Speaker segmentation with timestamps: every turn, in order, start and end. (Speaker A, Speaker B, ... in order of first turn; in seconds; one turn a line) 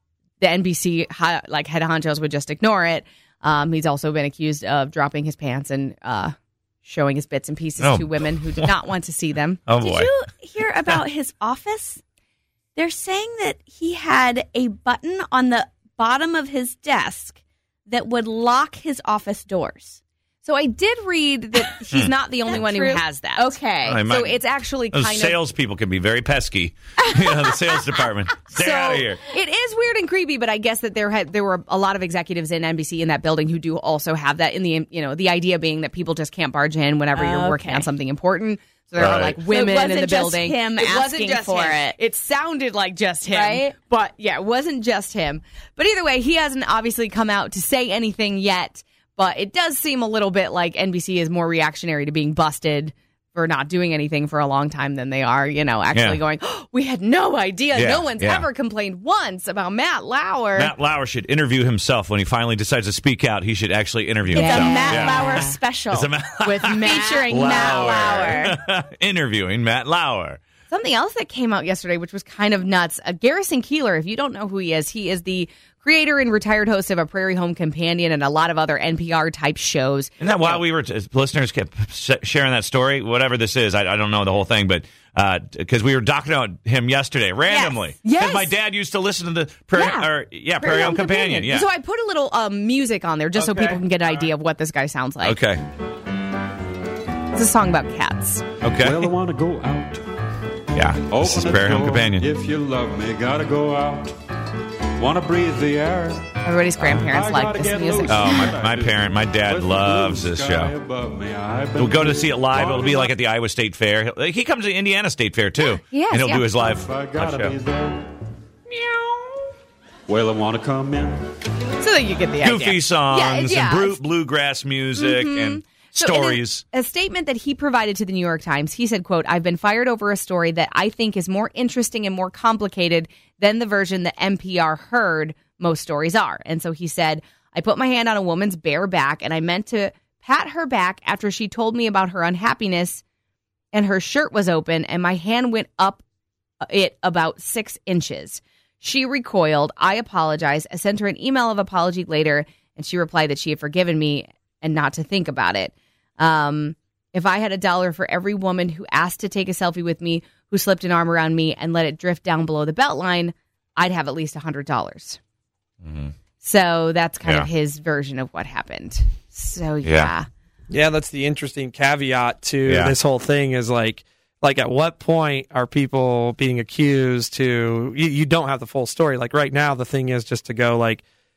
Speaker A: 0.4-9.6
Speaker B: 7.8-8.7
Speaker B: 9.7-10.1
Speaker C: 9.8-12.0
Speaker C: 12.8-20.0
Speaker A: 20.4-25.4
Speaker C: 22.5-23.9
Speaker B: 23.9-24.4
Speaker B: 24.9-29.2
Speaker C: 27.0-27.6
Speaker A: 28.5-60.7
Speaker C: 37.1-37.9
Speaker B: 39.0-39.4
Speaker C: 39.4-42.0
Speaker C: 43.3-43.7
Speaker B: 55.9-56.2
Speaker B: 57.7-58.5
Speaker B: 60.5-65.3
Speaker C: 64.3-66.1
Speaker A: 64.3-65.6
Speaker B: 65.9-70.4
Speaker A: 66.4-68.5
Speaker C: 66.8-68.5
Speaker A: 70.7-80.6
Speaker B: 80.2-91.7
Speaker A: 87.5-88.5
Speaker A: 89.7-95.4
Speaker B: 95.2-95.6
Speaker A: 97.3-98.5
Speaker B: 98.6-99.0
Speaker D: 98.8-100.0
Speaker B: 100.7-102.3
Speaker D: 101.1-104.1
Speaker D: 105.0-106.3
Speaker A: 106.4-108.5
Speaker B: 106.8-107.0
Speaker D: 107.0-113.2
Speaker B: 108.1-110.7
Speaker B: 111.7-117.6
Speaker A: 115.6-116.4
Speaker D: 116.2-118.1
Speaker D: 120.1-121.2
Speaker A: 121.8-124.0
Speaker B: 122.4-126.6
Speaker A: 124.9-143.0
Speaker A: 143.7-146.0
Speaker A: 146.7-165.2
Speaker B: 165.8-166.1
Speaker A: 166.4-170.3
Speaker B: 169.8-170.1
Speaker E: 170.7-181.0
Speaker B: 172.7-172.9